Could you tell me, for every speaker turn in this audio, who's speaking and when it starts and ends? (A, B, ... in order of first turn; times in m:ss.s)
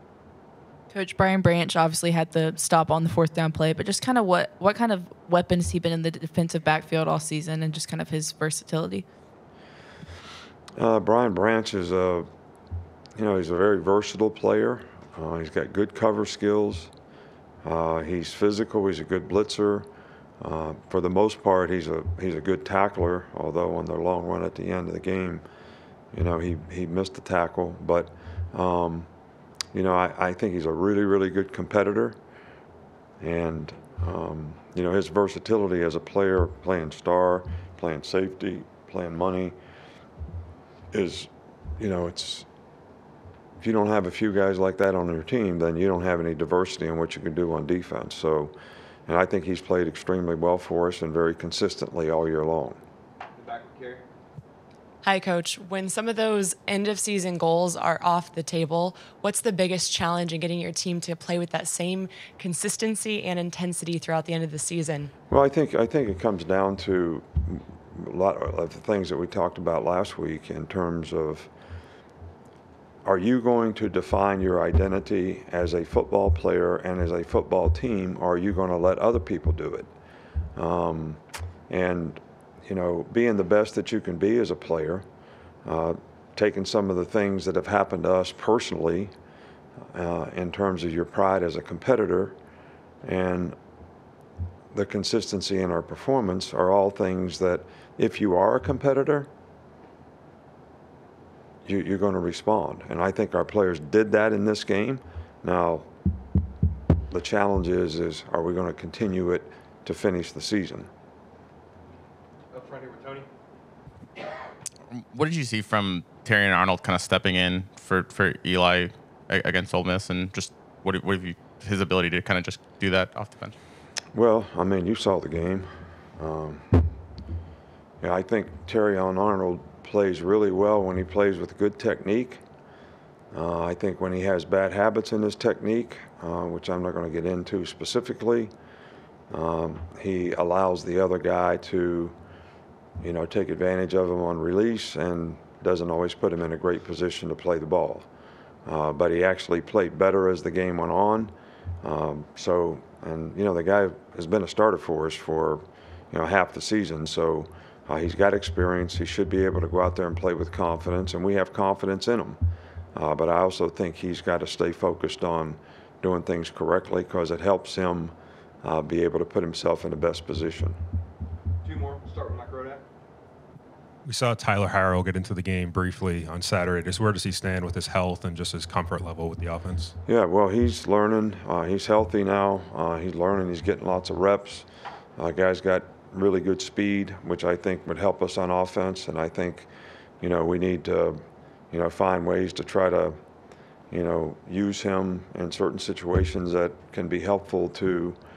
0:00.9-0:09.0 A
0:10.8-0:12.3 B
0:13.2-0:16.9 B
0:17.6-0:19.9 B
0:20.4-0:25.4 B
0:26.1-0:29.1 B
0:29.7-0:32.2 B
0:33.2-0:39.6 B
0:40.9-0:42.5 B
0:43.6-0:48.5 B
0:49.1-0:52.8 B
0:53.4-0:54.0 C
0:55.0-1:05.1 D
1:05.3-1:11.5 B
1:13.0-1:19.9 B
1:20.6-1:25.0 B
1:25.6-1:29.1 B
1:29.9-1:32.4 B
1:33.0-1:33.6 B
1:34.7-1:39.3 B
1:41.6-1:45.9 B
1:47.1-1:50.9 B
1:52.5-1:53.3 C
1:54.9-2:03.5 E
2:04.1-2:06.9 B
2:08.0-2:12.4 B
2:13.3-2:18.5 B
2:19.3-2:22.2 B
2:23.0-2:28.1 B
2:28.7-2:31.3 B
2:31.8-2:42.4 B
2:43.0-2:50.8 B
2:51.6-2:52.8 C
2:54.0-2:59.9 F
3:00.1-3:09.7 B
3:10.2-3:11.2 B
3:11.7-3:13.2 B
3:13.9-3:18.2 B